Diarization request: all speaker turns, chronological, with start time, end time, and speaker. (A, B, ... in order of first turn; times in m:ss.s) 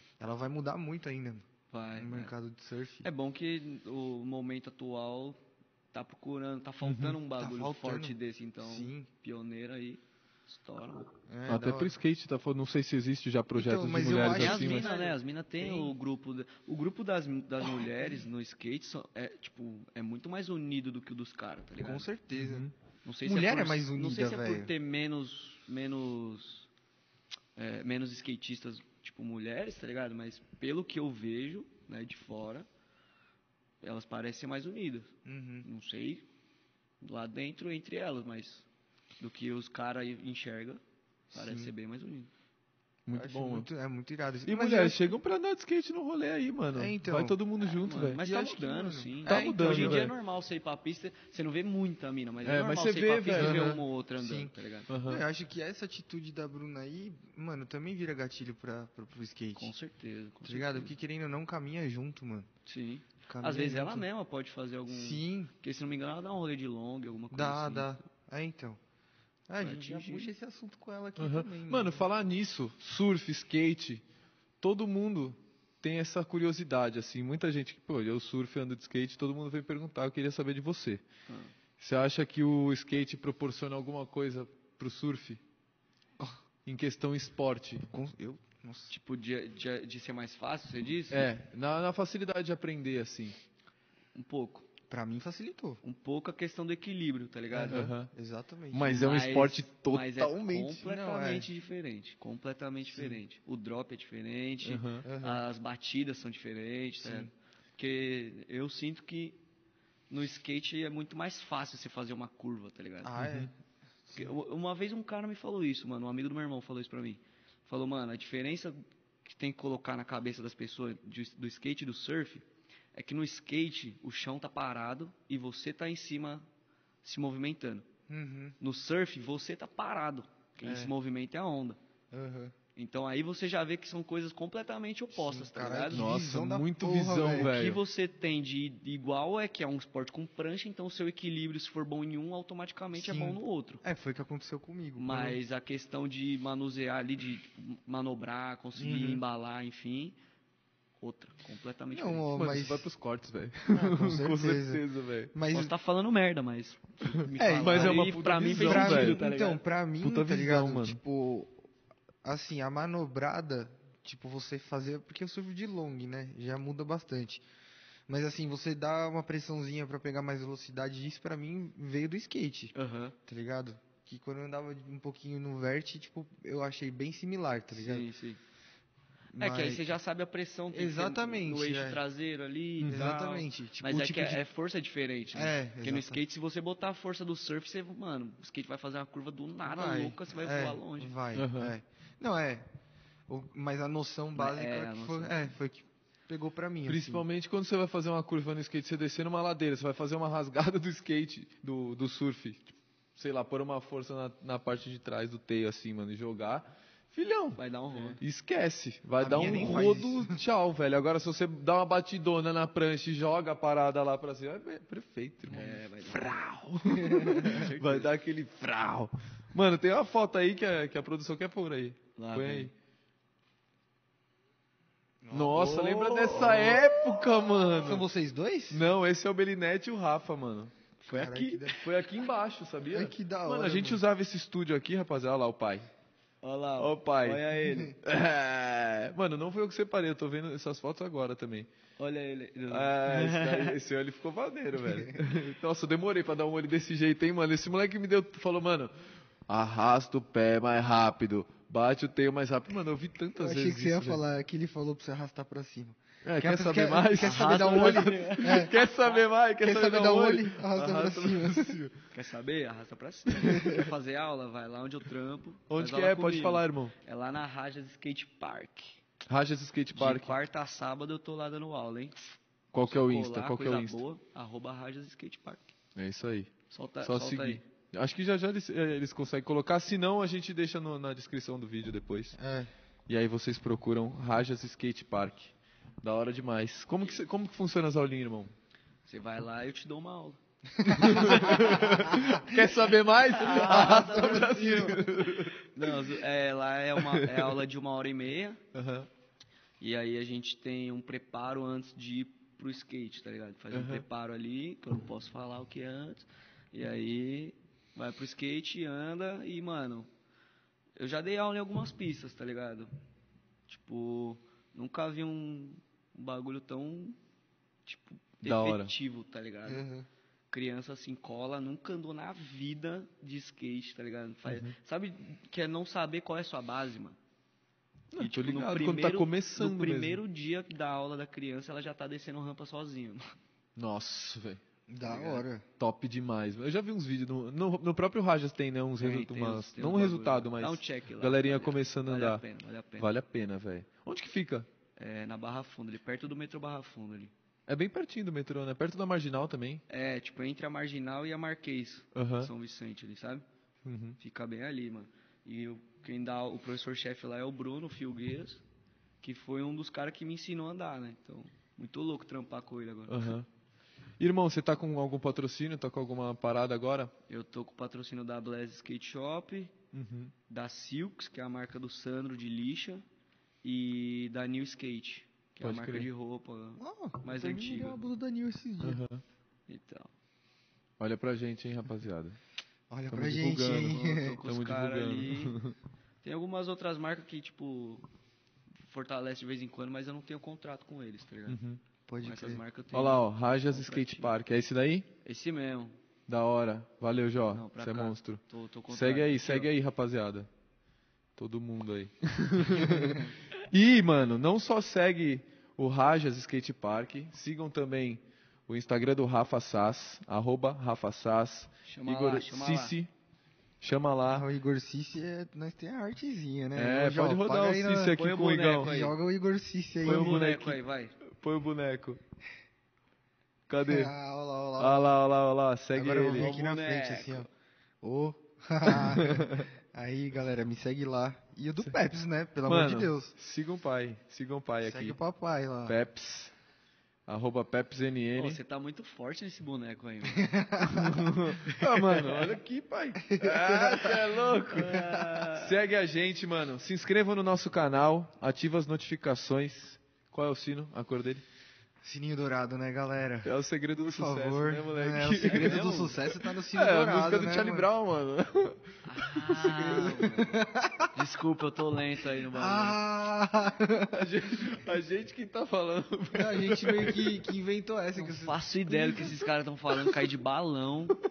0:00.2-0:03.1 A
0:01.7-0:02.3 B
0:03.0-0:05.4 B
0:05.9-0:11.1 B
0:06.8-0:07.2 C
0:07.4-0:09.1 A
0:11.3-0:12.0 A
0:11.5-0:14.9 C
0:13.5-0:16.0 A
0:14.0-0:22.1 B
0:21.8-0:22.7 A
0:22.3-0:22.7 C
0:23.0-0:26.7 B
0:23.2-0:24.7 A
0:27.6-0:32.7 B
0:33.8-0:35.1 B
0:35.2-0:35.7 A
0:35.6-0:36.3 B
0:37.0-0:38.7 B
0:39.2-0:42.3 B
0:41.3-0:41.7 A
0:43.1-0:43.7 C
0:43.2-0:45.2 A
0:44.5-0:48.2 C
0:46.8-0:47.4 A
0:47.8-0:54.9 B
0:48.2-0:50.1 A
0:49.3-0:50.1 C
0:52.4-0:53.8 C
0:53.3-0:59.7 A
0:54.9-0:55.2 C
0:59.6-1:01.0 B
1:00.4-1:02.5 A
1:02.7-1:08.0 B
1:03.3-1:04.1 A
1:04.9-1:05.5 A
1:07.3-1:08.8 A
1:09.5-1:12.1 A
1:09.6-1:10.3 B
1:11.2-1:14.0 C
1:14.6-1:21.0 C
1:21.8-1:25.4 C
1:26.7-1:27.9 C
1:27.9-1:28.9 A
1:28.9-1:31.3 B
1:31.1-1:33.4 C
1:34.2-1:34.7 B
1:34.9-1:35.8 A
1:35.8-1:37.9 B
1:37.5-1:39.1 A
1:37.7-1:38.1 C
1:38.7-1:40.6 C
1:38.9-1:49.4 B
1:40.4-1:41.5 A
1:42.9-1:43.2 A
1:44.6-1:45.1 C
1:45.0-1:45.4 A
1:47.0-1:47.3 A
1:50.1-1:53.1 B
1:53.0-1:53.5 A
1:53.2-1:53.5 C
1:54.0-1:54.3 A
1:54.1-2:06.4 B
2:07.0-2:07.9 B
2:08.1-2:08.6 A
2:08.6-2:11.8 B
2:10.6-2:10.9 A
2:12.1-2:12.5 A
2:12.8-2:16.0 B
2:15.1-2:17.6 A
2:15.9-2:17.8 C
2:17.3-2:23.8 B
2:22.9-2:25.4 A
2:25.0-2:30.2 B
2:28.8-2:29.2 A
2:31.0-2:32.3 B
2:31.9-2:32.9 A
2:32.3-2:35.3 C
2:33.7-2:35.7 A
2:35.5-2:39.6 B
2:37.4-2:41.6 A
2:37.6-2:39.2 C
2:40.0-2:41.0 C
2:42.2-2:47.4 A
2:48.1-2:52.7 A
2:52.8-2:53.2 B
2:53.3-2:58.1 A
2:57.7-2:58.4 B
2:59.3-2:59.9 A
2:59.4-3:11.2 B
3:00.7-3:02.0 A
3:02.9-3:04.4 A
3:05.3-3:06.2 A
3:09.6-3:12.7 A
3:11.4-3:11.8 C
3:13.3-3:17.2 A
3:14.4-3:15.4 B
3:16.9-3:27.6 C
3:27.6-3:28.2 B
3:28.2-3:42.7 C
3:29.2-3:30.4 A
3:29.3-3:29.9 B
3:35.5-3:36.4 B
3:36.9-3:38.1 B
3:37.0-3:37.5 A
3:42.2-3:42.7 B
3:45.2-3:46.8 A
3:45.3-3:48.0 C
3:47.8-3:48.9 A
3:48.7-3:50.7 C
3:51.0-3:51.8 B
3:51.1-3:51.8 A
3:51.8-3:55.9 C
3:52.9-3:54.0 A
3:56.4-3:58.0 B
3:56.8-3:57.5 C
3:58.0-4:01.7 C
4:02.0-4:03.8 B
4:02.7-4:08.9 C
4:04.8-4:05.2 A
4:09.5-4:14.2 C
4:13.4-4:18.7 A
4:16.2-4:22.0 C
4:17.2-4:19.2 B
4:19.6-4:21.8 A
4:22.1-4:29.0 B
4:23.4-4:23.8 C
4:23.4-4:23.8 A
4:25.7-4:26.9 C
4:29.3-4:30.4 C
4:29.9-4:35.7 B
4:32.7-4:34.0 C
4:36.0-4:42.4 C
4:36.7-4:37.6 B
4:42.4-4:42.7 A
4:43.1-4:48.5 C
4:49.1-4:52.4 B
4:50.8-4:51.5 A
4:51.0-4:56.0 C
4:52.1-4:52.6 A
4:53.3-4:58.6 B
4:57.0-4:57.6 C
4:58.7-4:59.1 C
4:59.8-5:10.1 B
5:03.7-5:04.0 C
5:11.0-5:12.9 B
5:13.7-5:17.2 B
5:17.8-5:19.9 B
5:18.4-5:18.9 C
5:19.7-5:20.1 A
5:20.5-5:27.2 B
5:24.5-5:24.8 C
5:28.1-5:30.2 C
5:28.2-5:33.3 B
5:33.8-5:34.6 C
5:34.9-5:35.6 A
5:35.0-5:35.4 B
5:35.8-5:42.4 C
5:39.0-5:43.1 B
5:43.0-5:44.7 C
5:45.0-5:47.3 B
5:47.7-5:49.8 C
5:49.9-5:53.4 B
5:52.2-5:52.5 C
5:53.8-5:54.2 C
5:54.2-5:58.6 B
5:59.2-6:03.4 B
6:03.1-6:03.5 C
6:04.2-6:07.1 C
6:07.3-6:09.8 B
6:09.9-6:10.3 C
6:10.5-6:13.0 B
6:13.6-6:18.0 B
6:15.6-6:16.1 C
6:16.8-6:19.0 A
6:18.8-6:19.2 C
6:19.7-6:20.1 B
6:21.0-6:22.4 C
6:22.9-6:24.4 A
6:23.1-6:25.7 C
6:23.8-6:25.6 B
6:26.2-6:28.0 B
6:28.9-6:31.6 B
6:31.5-6:31.8 C
6:32.1-6:32.6 A
6:32.2-6:34.3 B
6:32.9-6:35.1 C
6:35.2-6:35.9 B
6:36.3-6:40.5 C
6:37.5-6:39.7 B
6:41.4-6:53.1 C
6:51.9-6:53.0 B
6:53.8-6:54.5 C
6:54.3-6:58.2 A
6:56.8-6:58.9 C
6:58.1-6:59.2 B
6:58.8-7:00.4 A
7:00.0-7:01.1 B
7:00.0-7:02.2 C
7:03.7-7:04.1 C
7:03.8-7:05.2 A
7:04.8-7:06.5 C
7:05.9-7:07.5 A
7:06.3-7:07.5 B
7:08.0-7:13.3 A
7:08.9-7:09.7 C
7:12.7-7:15.2 C
7:14.9-7:16.0 A
7:15.9-7:16.5 C
7:17.3-7:18.6 C
7:18.4-7:20.9 B
7:20.3-7:22.3 A
7:20.9-7:31.4 C
7:23.2-7:24.3 A
7:24.6-7:25.8 B
7:24.9-7:25.3 A
7:32.0-7:37.9 A
7:33.4-7:40.1 C
7:35.3-7:36.2 B
7:39.0-7:43.0 B
7:39.6-7:41.1 A
7:42.5-7:44.2 A
7:44.1-7:47.4 C
7:46.3-7:49.4 A
7:48.2-7:51.2 B